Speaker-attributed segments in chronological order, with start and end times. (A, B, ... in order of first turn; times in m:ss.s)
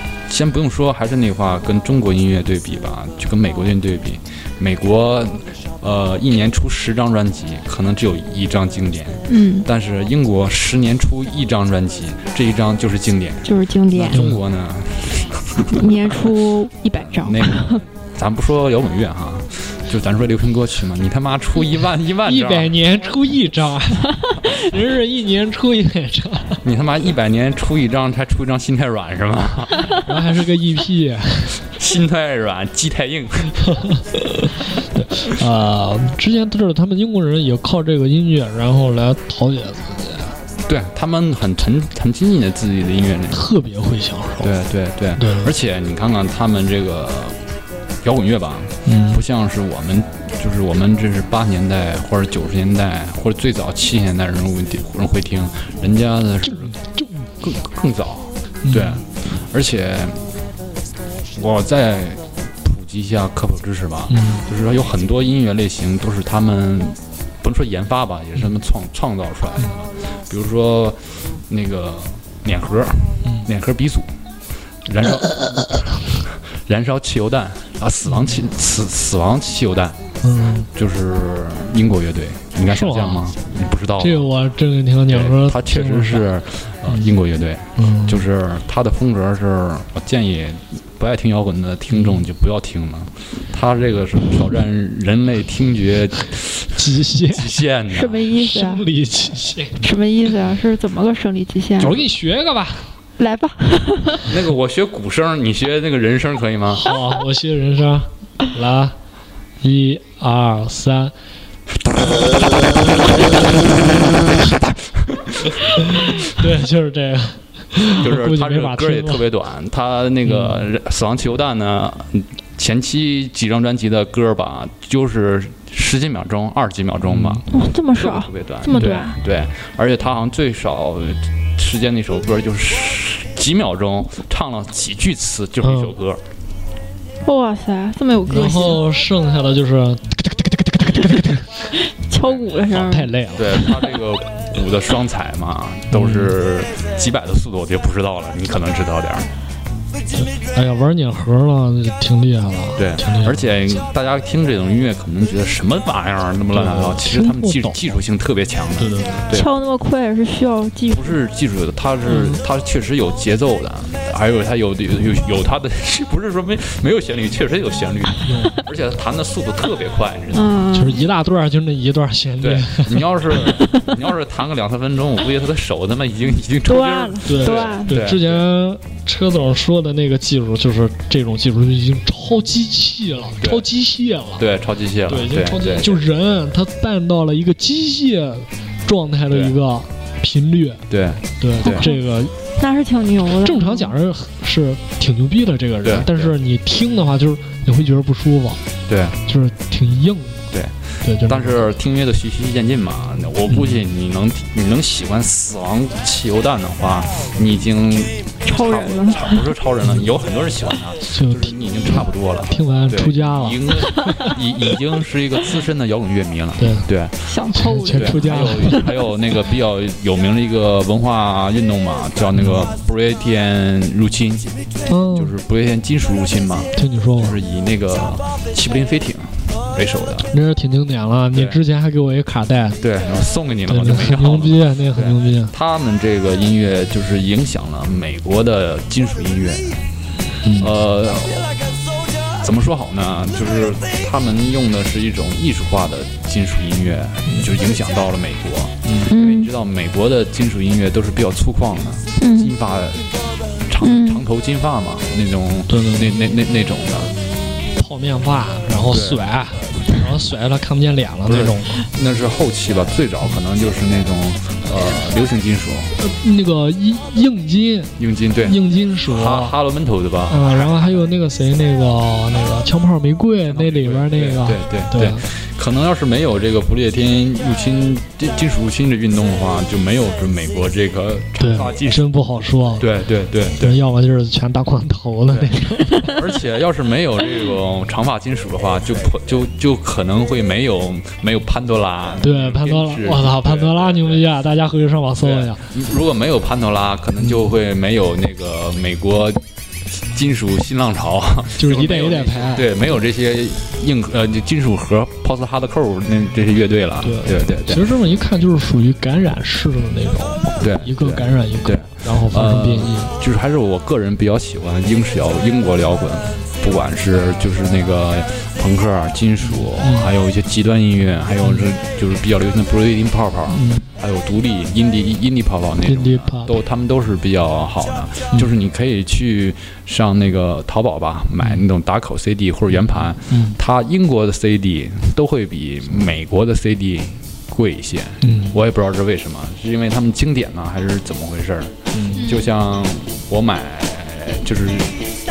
0:00.3-0:16.2 A
0:09.3-0:09.7 B
0:13.4-0:14.2 B
0:14.1-0:14.4 C
0:15.7-0:17.8 B
0:17.0-0:22.8 A
0:22.2-0:26.6 C
0:26.6-0:29.9 A
0:30.0-0:31.6 C
0:31.6-0:33.8 A
0:33.8-0:40.3 C
0:40.6-0:43.4 A
0:43.3-0:44.5 C
0:44.4-0:47.4 A
0:45.2-0:45.5 C
0:48.0-0:56.8 A
0:48.8-0:49.2 C
0:56.5-0:57.2 C
0:57.4-1:00.2 A
0:58.6-0:59.0 C
1:01.3-1:14.1 A
1:04.1-1:04.4 C
1:14.8-1:20.0 A
1:18.0-1:18.4 C
1:20.2-1:20.7 C
1:20.7-1:24.3 A
1:22.7-1:23.3 C
1:24.0-1:26.3 C
1:25.1-1:38.2 A
1:26.9-1:27.1 C
1:27.8-1:28.2 C
1:31.9-1:32.2 C
1:36.8-1:37.6 C
1:37.9-1:38.8 B
1:38.3-1:39.8 C
1:39.8-1:42.0 B
1:41.8-1:42.9 C
1:43.2-1:44.3 B
1:44.2-1:46.8 A
1:46.7-1:49.0 C
1:49.6-1:51.1 C
1:51.8-1:56.2 A
1:55.8-1:59.2 C
1:58.0-2:16.2 A
2:00.2-2:00.6 C
2:07.1-2:07.4 C
2:07.5-2:09.2 B
2:15.6-2:15.9 C
2:17.2-2:18.8 B
2:18.3-2:21.7 C
2:21.8-2:23.8 B
2:22.1-2:29.3 A
2:22.7-2:23.5 C
2:25.9-2:26.4 C
2:30.1-2:33.4 C
2:32.8-2:39.5 A
2:36.5-2:37.8 C
2:38.8-2:39.2 C
2:39.3-2:41.2 B
2:40.9-2:50.6 A
2:42.1-2:42.4 C
2:48.2-2:48.6 C
2:50.3-2:51.0 B
2:50.7-2:53.1 C
2:52.4-2:58.4 A
2:56.6-2:57.9 B
2:57.2-3:04.4 C
3:03.4-3:03.6 A
3:04.4-3:06.0 A
3:05.1-3:10.8 C
3:10.9-3:11.8 A
3:11.4-3:12.3 C
3:11.6-3:12.0 B
3:12.6-3:13.9 B
3:13.4-3:18.6 C
3:15.8-3:16.3 A
3:18.9-3:19.2 A
3:19.2-3:20.4 C
3:20.5-3:37.3 A
3:21.0-3:21.6 C
3:23.5-3:23.8 C
3:28.4-3:29.5 B
3:31.1-3:34.3 C
3:36.6-3:36.9 C
3:37.2-3:38.9 B
3:37.5-3:38.8 C
3:37.9-3:44.5 A
3:42.3-3:42.6 C
3:44.9-3:45.3 C
3:45.1-3:50.3 A
3:46.7-3:47.4 C
3:50.3-3:52.8 C
3:51.3-3:51.6 A
3:52.8-3:59.8 A
3:53.7-3:55.5 C
4:00.4-4:00.7 C
4:00.6-4:01.6 A
4:02.4-4:13.1 A
4:08.8-4:09.1 C
4:09.1-4:09.5 B
4:12.2-4:12.5 B
4:13.7-4:17.1 A
4:13.8-4:14.2 B
4:15.7-4:16.2 C
4:17.8-4:21.8 C
4:18.9-4:19.2 A
4:21.2-4:25.9 A
4:26.0-4:29.6 C
4:28.0-4:31.0 A
4:30.3-4:35.2 C
4:33.5-4:42.1 A
4:41.4-4:42.9 C
4:42.8-4:43.8 A
4:43.6-4:46.1 C
4:45.3-4:54.2 A
4:52.2-4:55.6 C
4:55.2-5:07.9 A
4:57.2-4:57.5 C
5:01.6-5:02.7 C
5:07.0-5:13.1 C
5:10.6-5:45.0 A
5:19.7-5:20.1 C
5:21.4-5:21.7 C
5:23.5-5:23.8 C
5:25.8-5:26.6 C
5:33.2-5:33.6 C
5:38.2-5:38.6 C
5:41.9-5:42.2 C
5:42.1-5:42.5 B